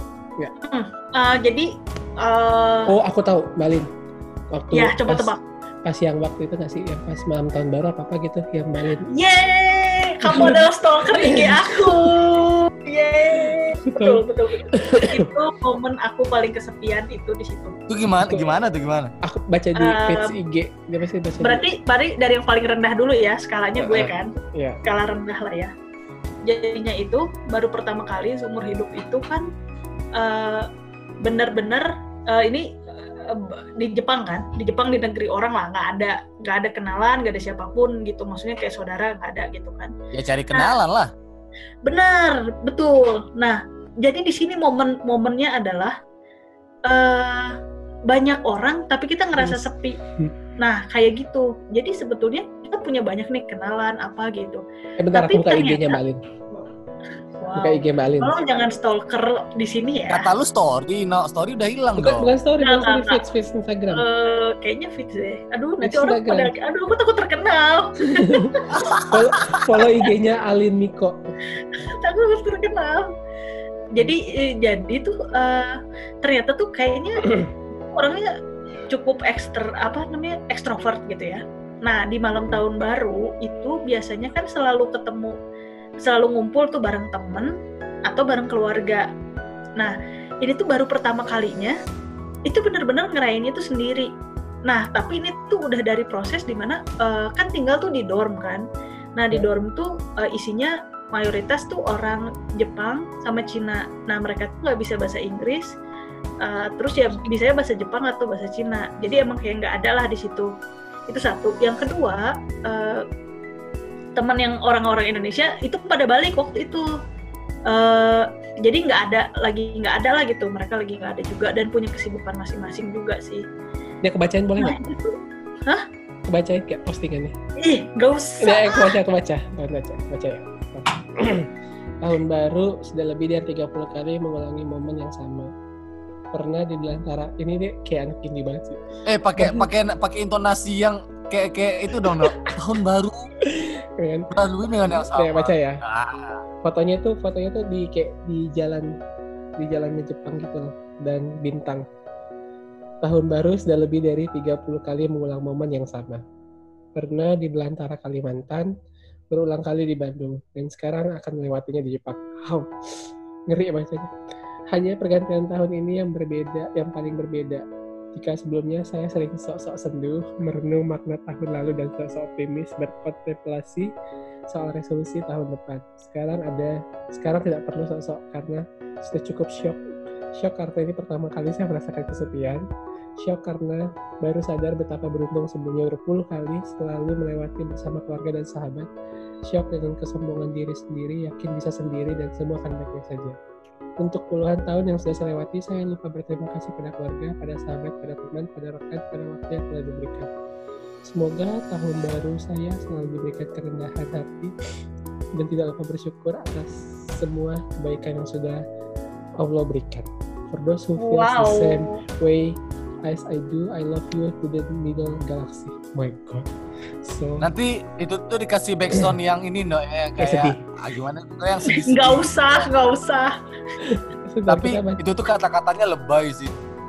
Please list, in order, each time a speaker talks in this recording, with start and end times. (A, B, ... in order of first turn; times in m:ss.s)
0:00.6-0:02.9 A
0:02.9-0:03.9 B
0:04.5-0:05.3 B
0:04.7-0:05.4 A
0:05.9-0:09.1 B
0:09.1-0:17.8 A
0:10.2-0:10.6 B
0:11.2-0:11.9 B
0:13.8-0:15.3 B
0:17.9-0:19.1 C
0:18.2-0:18.5 B
0:19.2-0:21.6 B
0:19.8-0:20.4 A
0:21.4-0:25.7 A
0:23.8-0:24.8 B
0:26.4-0:29.5 A
0:30.2-0:30.7 A
0:31.2-0:39.9 A
0:40.1-0:41.1 C
0:41.8-0:46.0 A
0:46.9-0:47.6 A
0:48.1-0:50.0 A
0:49.4-0:49.7 B
0:50.6-0:54.6 A
0:55.0-0:56.2 B
0:55.1-0:56.0 A
0:57.4-1:00.3 A
0:57.6-0:58.4 B
1:00.1-1:02.3 C
1:02.0-1:04.0 B
1:02.6-1:03.2 A
1:03.9-1:08.8 A
1:05.8-1:06.5 B
1:08.1-1:11.3 B
1:08.7-1:09.0 C
1:11.6-1:13.1 A
1:13.9-1:18.4 A
1:18.9-1:25.4 A
1:26.0-1:27.5 A
1:28.1-1:29.1 A
1:29.8-1:31.8 A
1:32.4-1:34.1 A
1:34.7-1:38.6 A
1:39.2-1:45.7 A
1:46.4-1:50.5 A
1:51.1-1:53.0 A
1:54.2-1:56.9 A
1:57.7-2:03.4 A
2:04.0-2:04.8 B
2:04.6-2:05.8 A
2:06.3-2:07.3 B
2:07.6-2:08.9 A
2:08.4-2:11.5 B
2:12.0-2:15.5 B
2:16.3-2:18.8 B
2:19.1-2:23.3 C
2:19.4-2:19.7 B
2:22.0-2:22.5 B
2:23.4-2:24.3 B
2:24.3-2:26.4 C
2:24.9-2:25.8 B
2:26.6-2:28.9 B
2:29.6-2:31.8 B
2:33.0-2:36.2 B
2:37.0-2:38.7 B
2:39.3-2:44.1 B
2:44.7-2:53.9 B
2:54.5-2:59.8 B
3:00.3-3:02.6 B
3:03.2-3:08.9 B
3:09.5-3:13.4 B
3:14.0-3:20.3 B
3:21.0-3:24.6 B
3:25.4-3:28.6 B
3:29.4-3:36.5 B
3:31.0-3:32.0 A
3:37.0-3:37.5 B
3:37.4-3:42.3 C
3:40.2-3:40.6 B
3:41.7-3:43.3 A
3:43.8-3:45.0 B
3:44.5-3:46.6 C